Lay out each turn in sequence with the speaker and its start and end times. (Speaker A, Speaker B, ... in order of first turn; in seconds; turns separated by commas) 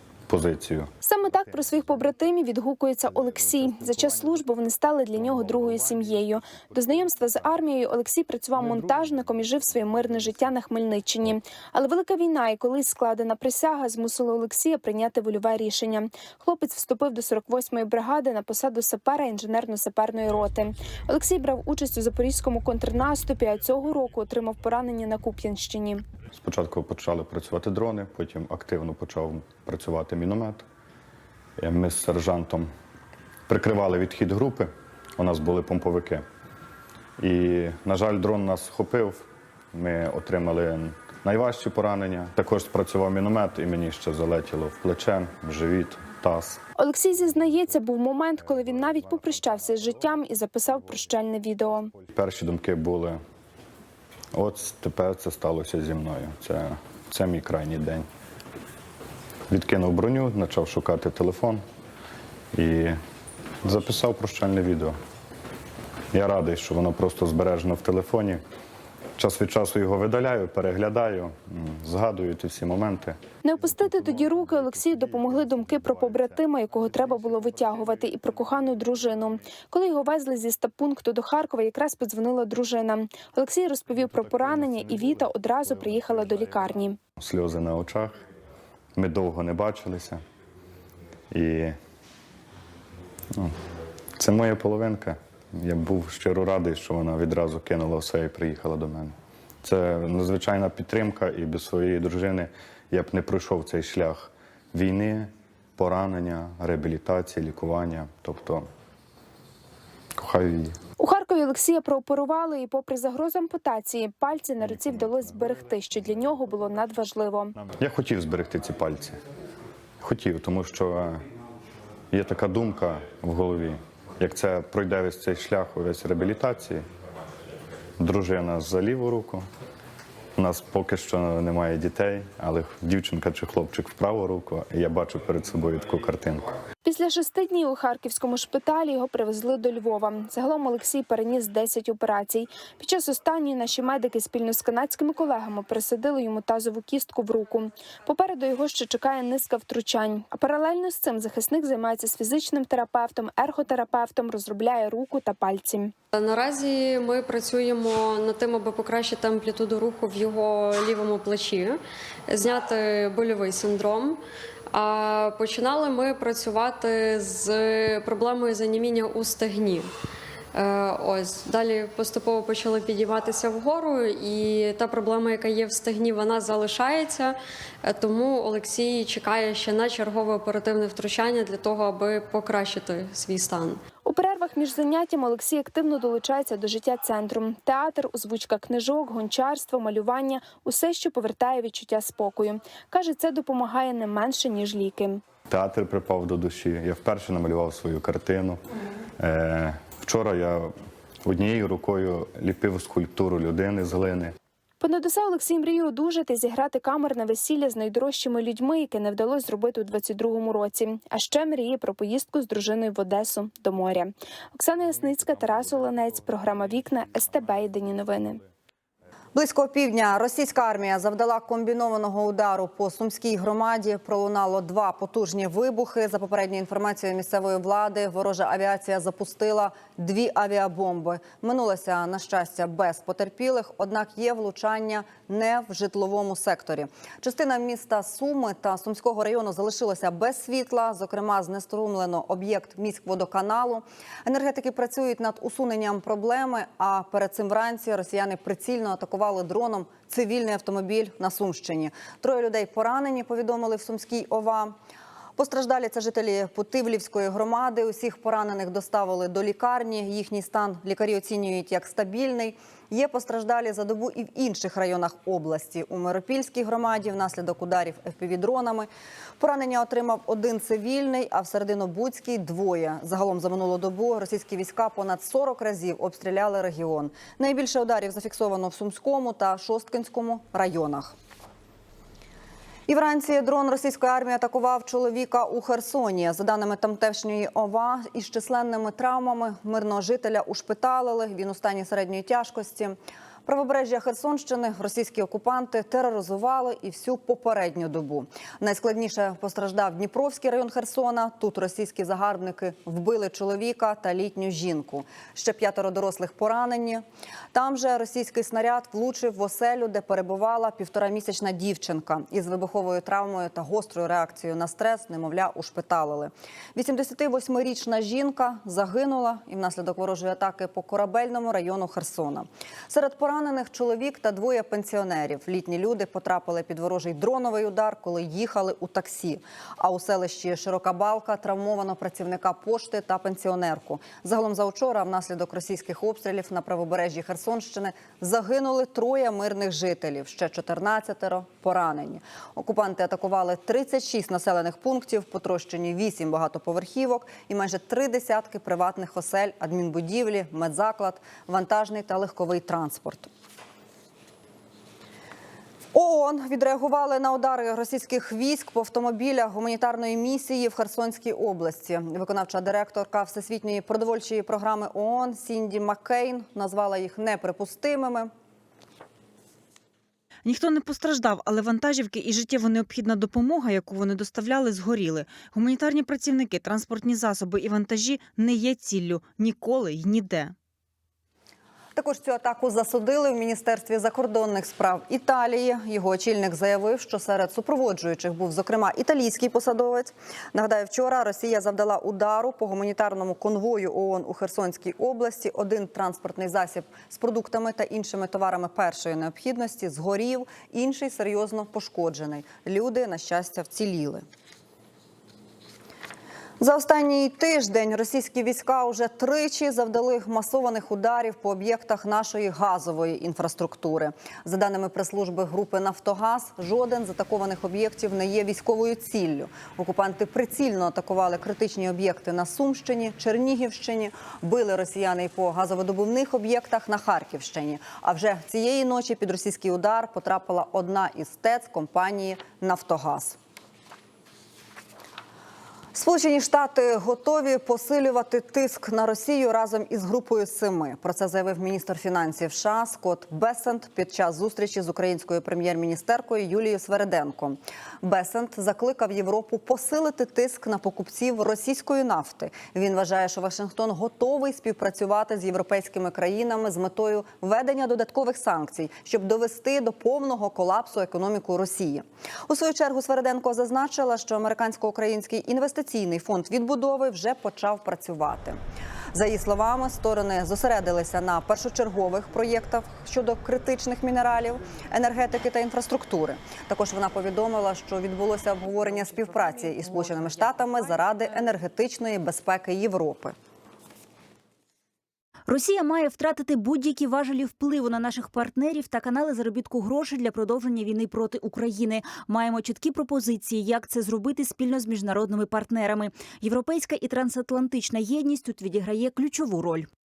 Speaker A: 0.3-0.9, Speaker B: 1.0-26.0, Speaker A: 26.3-30.6, Speaker A: 31.6-32.7, Speaker A: 33.5-36.2, Speaker A: 37.2-46.6, Speaker B: 46.8-51.9, Speaker A: 52.0-53.2, Speaker A: 54.3-58.1, Speaker A: 59.5-61.6, Speaker A: 62.5-63.0, Speaker A: 63.6-65.0, Speaker A: 66.1-68.4, Speaker A: 69.2-73.2, Speaker B: 73.4-87.0, Speaker A: 87.2-88.2, Speaker A: 88.9-90.2, Speaker A: 91.3-91.8, Speaker A: 94.2-108.7, Speaker A: 110.1-110.8, Speaker B: 111.0-117.5, Speaker A: 117.7-119.2, Speaker A: 120.0-121.2, Speaker A: 122.1-126.8, Speaker A: 128.0-129.4, Speaker A: 130.3-136.5, Speaker B: 136.8-155.9, Speaker C: 156.1-164.2, Speaker C: 164.7-169.9, Speaker C: 170.5-183.8, Speaker B: 184.1-195.2, Speaker A: 195.5-198.6, Speaker A: 199.2-200.7, Speaker A: 201.2-204.3, Speaker B: 204.8-218.4, Speaker D: 219.3-254.7, Speaker D: 255.4-281.1, Speaker D: 282.9-353.3, Speaker D: 355.9-368.3, Speaker E: 370.4-380.5, Speaker D: 381.9-404.2, Speaker D: 406.6-433.4, Speaker D: 435.9-468.6, Speaker D: 469.1-483.3, Speaker F: 485.5-499.9